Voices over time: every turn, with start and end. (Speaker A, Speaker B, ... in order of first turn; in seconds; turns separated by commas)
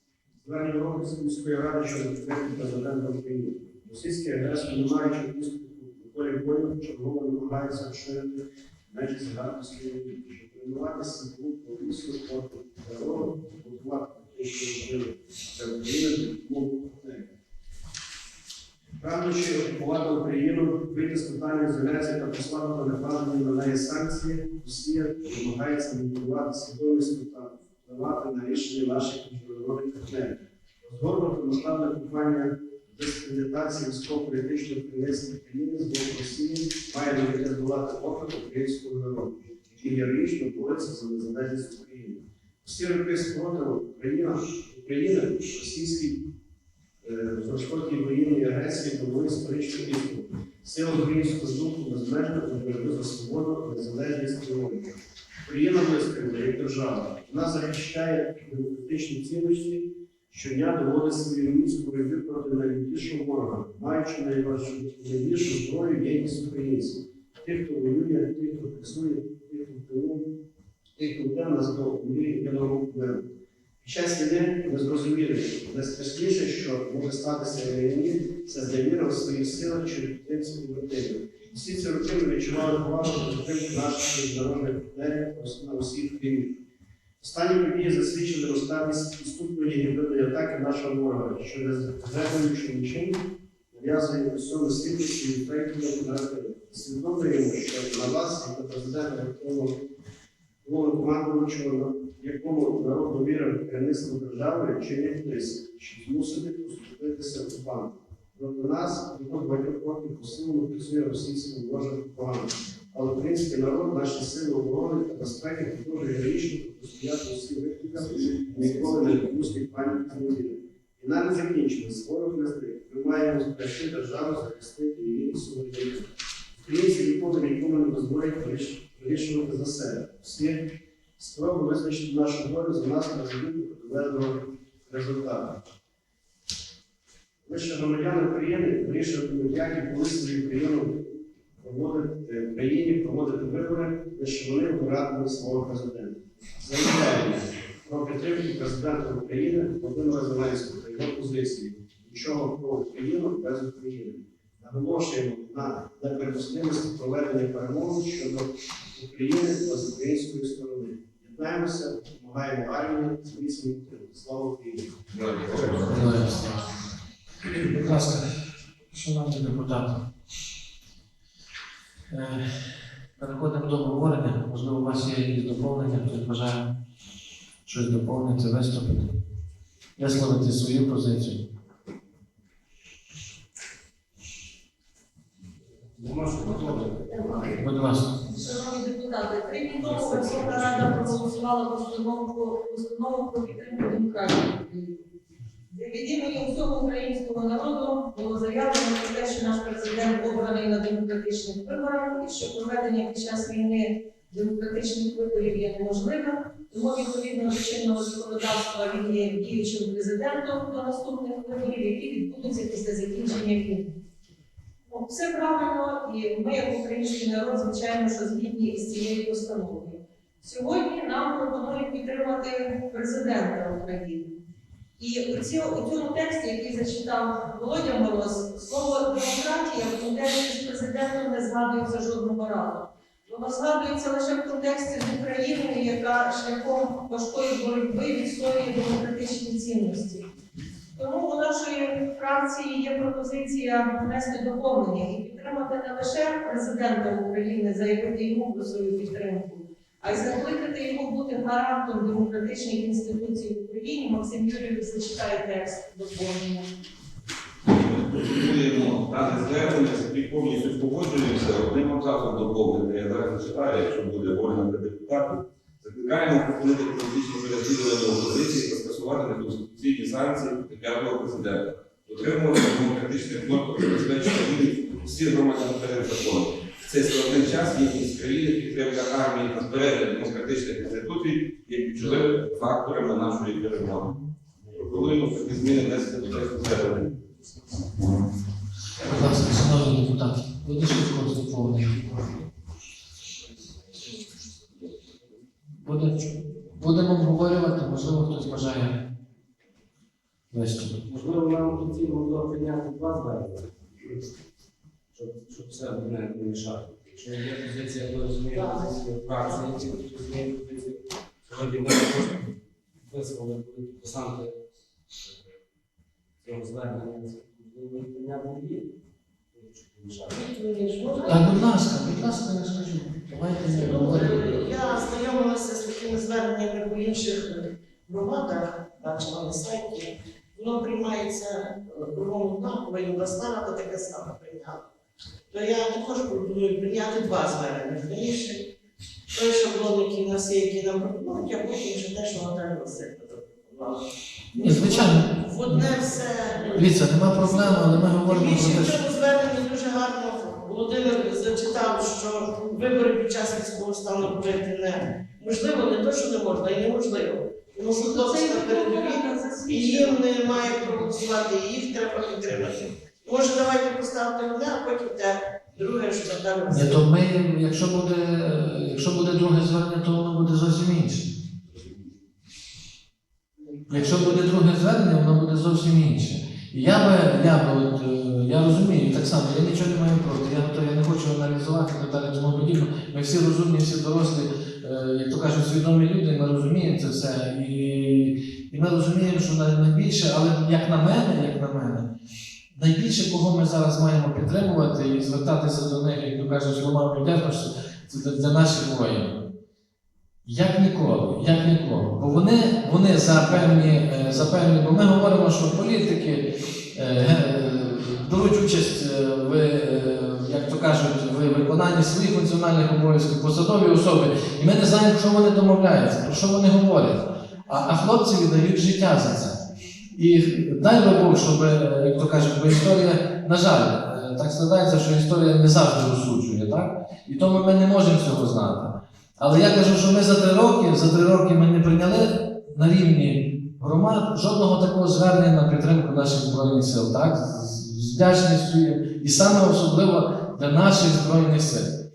Speaker A: 0.4-17.3, Speaker A: 19.0-46.2, Speaker A: 47.0-70.2, Speaker A: 71.0-73.3, Speaker A: 73.8-86.6, Speaker A: 87.2-99.8, Speaker A: 100.6-135.6, Speaker B: 118.1-119.5, Speaker A: 137.4-165.0, Speaker C: 165.1-166.0, Speaker D: 165.8-166.7, Speaker D: 167.5-168.4, Speaker D: 168.9-170.0, Speaker D: 172.1-176.7, Speaker D: 177.7-179.2, Speaker D: 180.0-181.4, Speaker B: 185.9-187.6, Speaker D: 187.6-188.2, Speaker E: 188.3-195.0, Speaker B: 189.8-190.9, Speaker E: 195.7-213.9, Speaker E: 214.9-224.3, Speaker E: 225.0-240.2, Speaker E: 240.9-256.7, Speaker C: 257.7-284.1, Speaker C: 284.7-287.1, Speaker D: 289.0-292.2, Speaker D: 295.8-299.0, Speaker D: 300.5-301.0, Speaker B: 301.0-304.1, Speaker B: 305.1-314.6, Speaker F: 308.5-308.9, Speaker B: 316.4-318.9, Speaker B: 319.5-320.5, Speaker F: 320.3-321.6, Speaker D: 321.2-324.5, Speaker F: 323.7-334.9, Speaker F: 335.5-338.6, Speaker F: 339.3-344.0, Speaker F: 344.5-346.9, Speaker D: 344.6-345.9, Speaker D: 346.8-349.0, Speaker F: 348.2-367.0, Speaker E: 358.0-360.7, Speaker D: 366.7-371.3, Speaker D: 373.9-392.1, Speaker D: 392.7-399.4, Speaker D: 400.4-419.6, Speaker D: 420.1-442.0